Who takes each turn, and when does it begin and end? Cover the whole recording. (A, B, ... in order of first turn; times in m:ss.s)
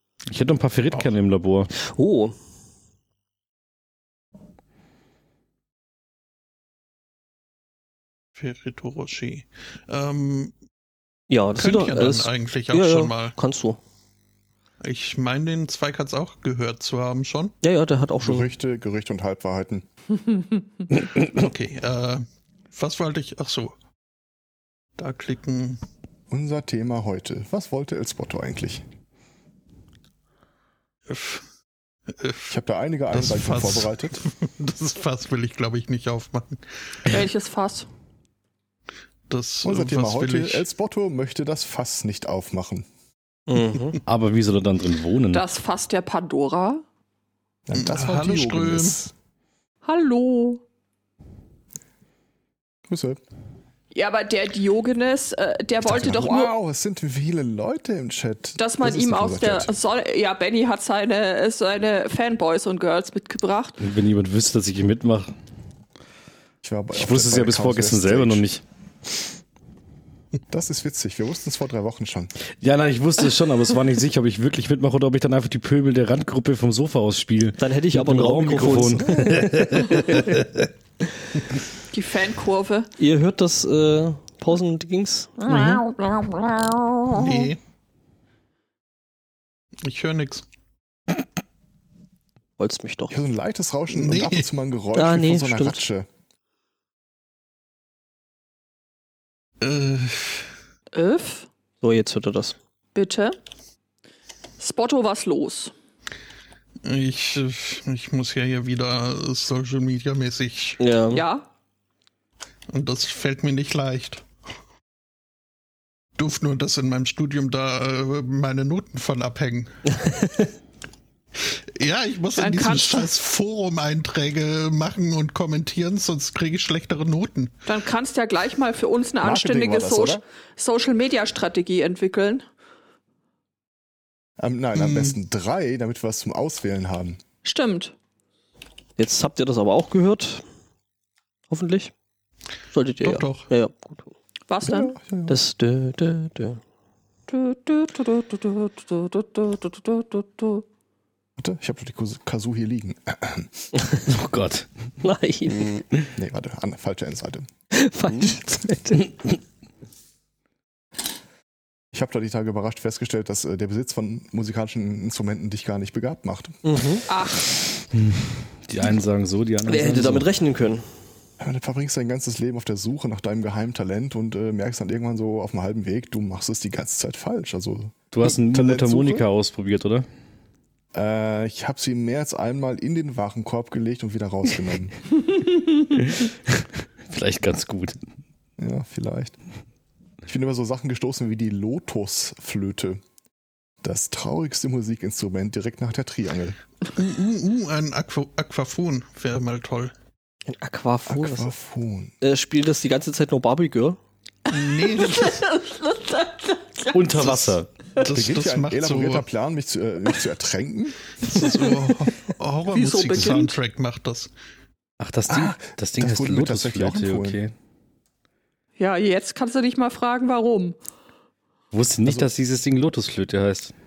0:00.3-0:01.7 A
0:01.8-0:02.3 B
0:08.4-0:10.5 C
0:11.3-0:13.8 B
0:11.6-0:13.3 C
0:14.8-0:17.5 C
0:17.6-0:18.5 B
0:18.2-0:19.8 D
0:21.2-0:23.7 C
0:25.0-0:25.8 C
0:26.3-0:28.8 D
0:31.1-0:31.4 C
0:32.1-0:32.5 C
0:32.5-0:34.2 D
0:33.1-0:37.0 C
0:37.1-0:37.9 E
0:39.3-0:40.6 C
0:39.6-0:42.8 D
0:43.5-0:44.0 B
0:44.1-0:45.4 A
0:45.3-0:46.8 E
0:47.7-0:49.1 D
0:47.7-0:49.0 C
0:49.8-0:50.6 E
0:52.9-0:53.2 D
0:53.9-0:56.5 E
0:55.8-0:59.7 D
0:58.6-1:03.8 E
1:03.8-1:05.3 A
1:06.6-1:08.4 D
1:06.9-1:08.6 A
1:10.5-1:12.3 D
1:12.6-1:20.5 A
1:17.6-1:20.3 B
1:19.0-1:19.5 D
1:21.9-1:22.9 E
1:23.0-1:25.8 B
1:25.4-1:27.5 E
1:27.1-1:27.6 C
1:29.8-1:30.4 C
1:32.6-1:33.2 B
1:33.1-1:36.1 D
1:33.9-1:34.5 C
1:34.9-1:35.8 B
1:39.6-1:40.4 C
1:40.9-1:41.5 E
1:41.8-1:42.6 B
1:42.9-1:43.4 E
1:44.6-1:45.7 E
1:46.8-1:50.8 C
1:50.8-1:51.2 B
1:51.1-1:51.4 E
1:52.7-1:54.2 C
1:56.2-1:59.7 C
1:59.9-2:00.5 B
2:01.4-2:07.5 C
2:02.4-2:03.1 E
2:07.7-2:12.4 E
2:09.2-2:10.2 D
2:14.4-2:17.2 D
2:14.8-2:15.1 C
2:17.4-2:17.9 E
2:19.0-2:20.4 B
2:21.5-2:21.9 B
2:22.7-2:24.1 B
2:23.0-2:23.5 C
2:24.5-2:24.9 E
2:24.6-2:25.4 D
2:25.3-2:26.6 B
2:27.3-2:30.6 E
2:31.4-2:33.6 D
2:34.0-2:34.7 A
2:35.0-2:35.8 B
2:36.2-2:37.5 D
2:37.7-2:39.1 B
2:41.9-2:46.6 D
2:46.6-2:47.0 B
2:47.1-2:47.5 E
2:47.9-2:50.3 A
2:49.6-2:50.8 B
2:51.4-2:59.2 D
2:58.1-3:00.0 A
3:00.9-3:05.0 D
3:05.9-3:08.0 A
3:08.6-3:09.4 D
3:10.2-3:13.0 D
3:13.8-3:16.6 D
3:17.0-3:19.9 C
3:20.5-3:21.5 B
3:21.0-3:22.1 D
3:22.2-3:24.0 B
3:24.5-3:25.4 C
3:24.5-3:27.3 E
3:26.9-3:27.7 A
3:27.2-3:29.2 C
3:28.0-3:31.0 D
3:31.2-3:34.3 C
3:31.3-3:31.9 E
3:32.7-3:33.6 E
3:35.0-3:37.5 A
3:35.3-3:37.4 D
3:38.8-3:40.8 E
3:41.7-3:43.7 A
3:42.0-3:42.3 D